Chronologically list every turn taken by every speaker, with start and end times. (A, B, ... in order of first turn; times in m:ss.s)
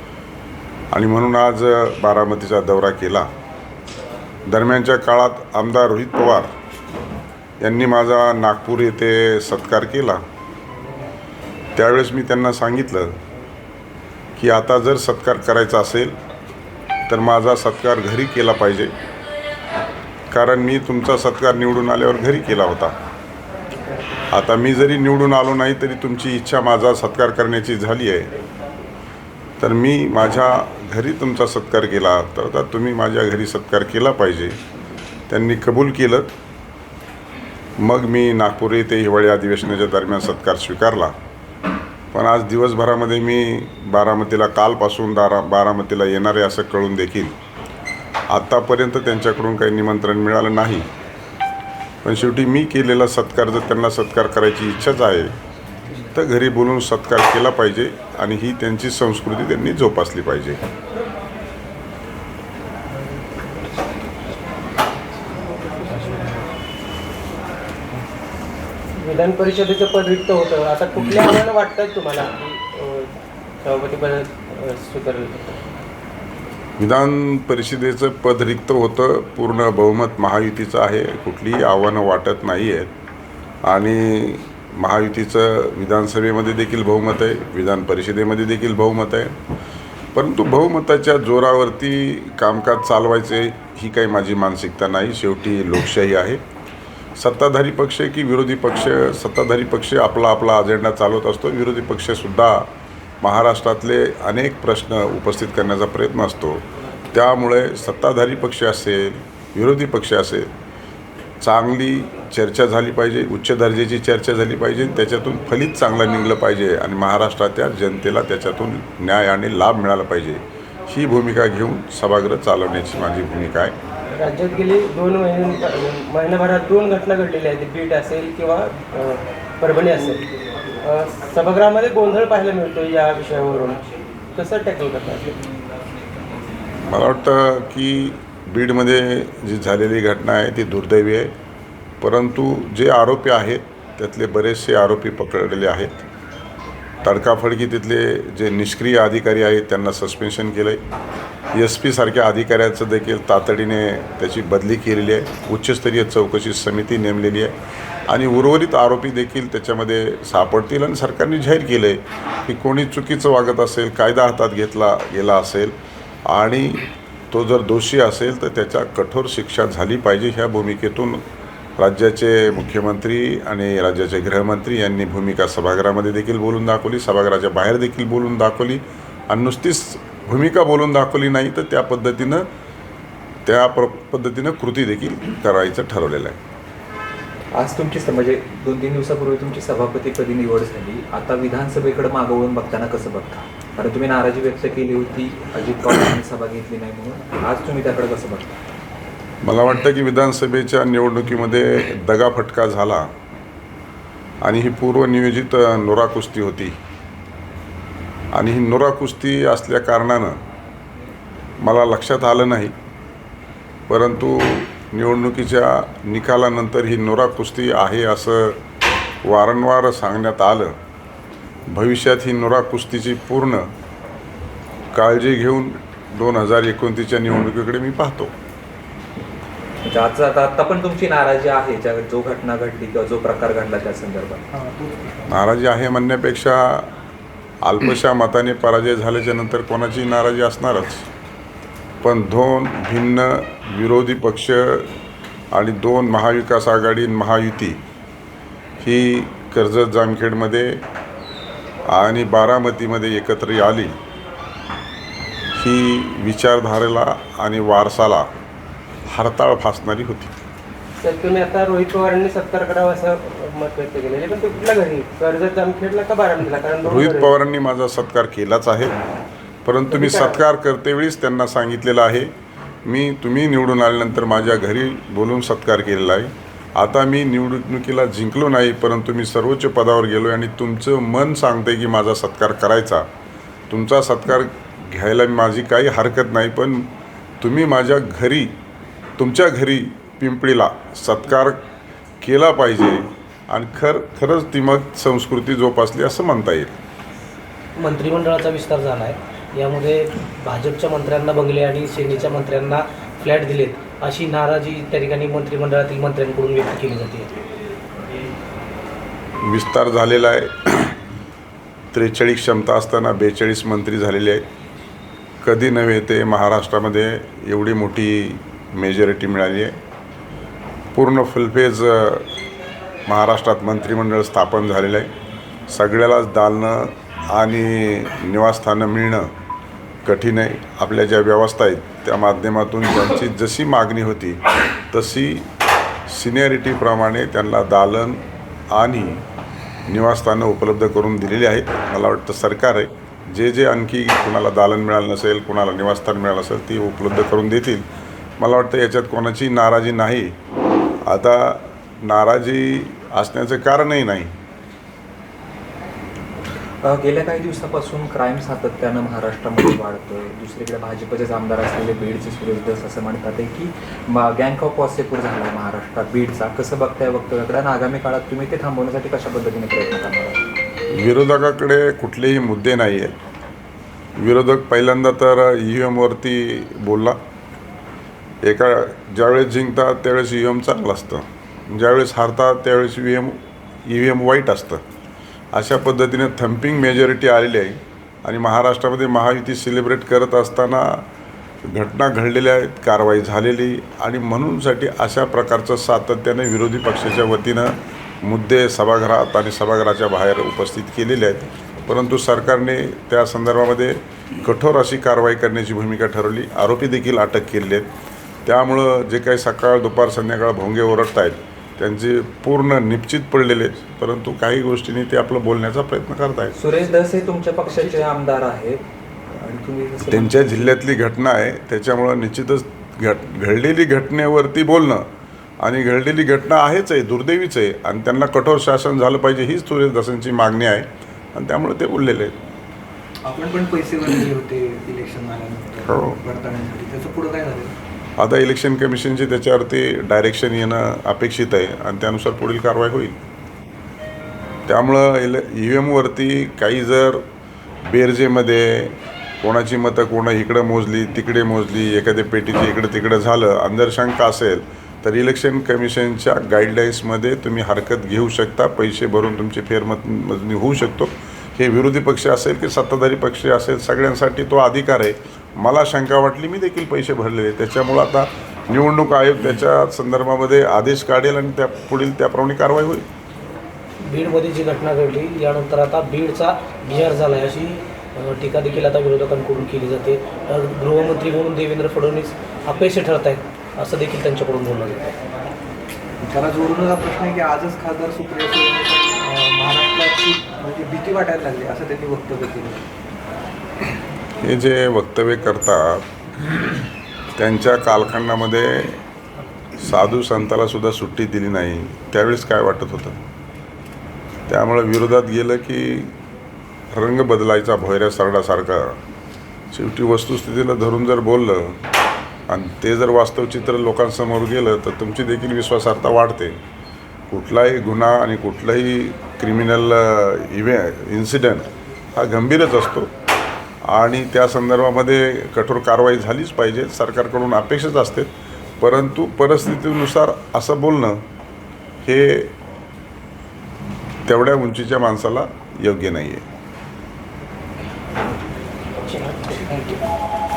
0:00.9-0:03.3 A
0:04.5-0:06.5 A
0:07.6-0:10.2 A
0:11.8-0:13.2 A
0:14.4-0:16.2 A
0:17.1-0:18.9 A
0:20.3-0:23.0 A
0:23.7-0:24.3 B
0:24.3-0:28.3 A
0:29.6-0:34.6 A
0:35.3-0:36.3 A
0:37.8-0:41.1 A
0:42.1-0:47.4 A
0:48.3-0:50.9 A
0:52.0-0:55.3 A
0:56.0-1:00.6 A
1:05.8-1:06.4 B
1:09.1-1:12.1 C
1:10.6-1:13.1 D
1:13.6-1:15.4 C
1:13.9-1:15.4 D
1:16.8-1:22.9 A
1:23.7-1:29.4 A
1:30.2-1:36.4 A
1:37.2-1:42.7 A
1:43.2-1:50.5 A
1:51.4-2:03.8 A
2:04.2-2:10.2 C
2:10.8-2:13.8 C
2:14.4-2:15.3 C
2:16.9-2:21.3 A
2:22.0-2:26.0 A
2:27.0-2:30.8 A
2:31.5-2:37.6 A
2:38.1-2:45.8 A
2:46.3-2:51.2 A
2:51.8-3:02.5 A
3:03.5-3:06.4 A
3:07.6-3:18.5 E
3:19.4-3:23.1 A
3:24.4-3:26.8 A
3:28.3-3:30.4 A
3:31.6-3:32.7 A
3:33.9-3:38.6 A
3:39.2-3:40.8 A
3:41.7-3:43.7 A
3:44.9-3:48.3 A
3:49.9-3:54.4 E
3:54.5-3:55.4 B
3:55.3-3:56.9 A
3:57.6-4:01.1 A
4:02.0-4:04.9 A
4:05.5-4:07.8 A
4:08.8-4:10.8 A
4:11.9-4:14.0 A
4:15.6-4:18.3 A
4:19.1-4:20.3 A
4:21.0-4:27.3 C
4:26.8-4:28.9 A
4:29.6-4:32.3 A
4:29.9-4:30.3 C
4:32.8-4:43.1 A
4:43.7-4:46.9 A
4:47.4-4:48.5 A
4:49.2-4:51.6 A
4:52.2-4:56.8 A
4:57.8-5:07.3 D
5:09.4-5:11.0 A
5:11.9-5:14.4 A
5:15.4-5:19.8 A
5:21.0-5:22.3 A
5:23.1-5:25.1 A
5:25.7-5:29.3 A
5:30.0-5:35.5 A
5:36.1-5:39.2 A
5:39.9-5:47.8 A
5:48.4-5:50.4 A
5:51.1-5:54.3 A
5:56.8-6:10.4 E
6:10.9-6:13.2 A
6:14.2-6:17.2 A
6:18.4-6:24.8 A
6:25.5-6:31.1 A
6:31.6-6:47.9 A
6:48.5-6:56.6 A
6:56.6-6:58.8 E
6:59.4-7:00.7 E
7:00.1-7:05.1 A
7:05.6-7:12.4 A
7:13.2-7:17.8 B
7:15.9-7:16.2 A
7:18.2-7:23.2 A
7:24.7-7:27.2 A
7:27.9-7:53.0 A
7:54.0-8:05.1 D
8:06.2-8:12.9 B
8:14.4-8:16.1 A
8:17.4-8:19.0 A
8:19.8-8:23.2 A
8:24.5-8:26.1 A
8:26.9-8:29.0 A
8:29.7-8:31.8 A
8:32.5-8:36.6 A
8:37.3-8:43.1 A
8:43.9-8:51.2 A
8:52.0-8:52.6 A
8:54.3-8:56.4 A
8:59.1-9:00.0 D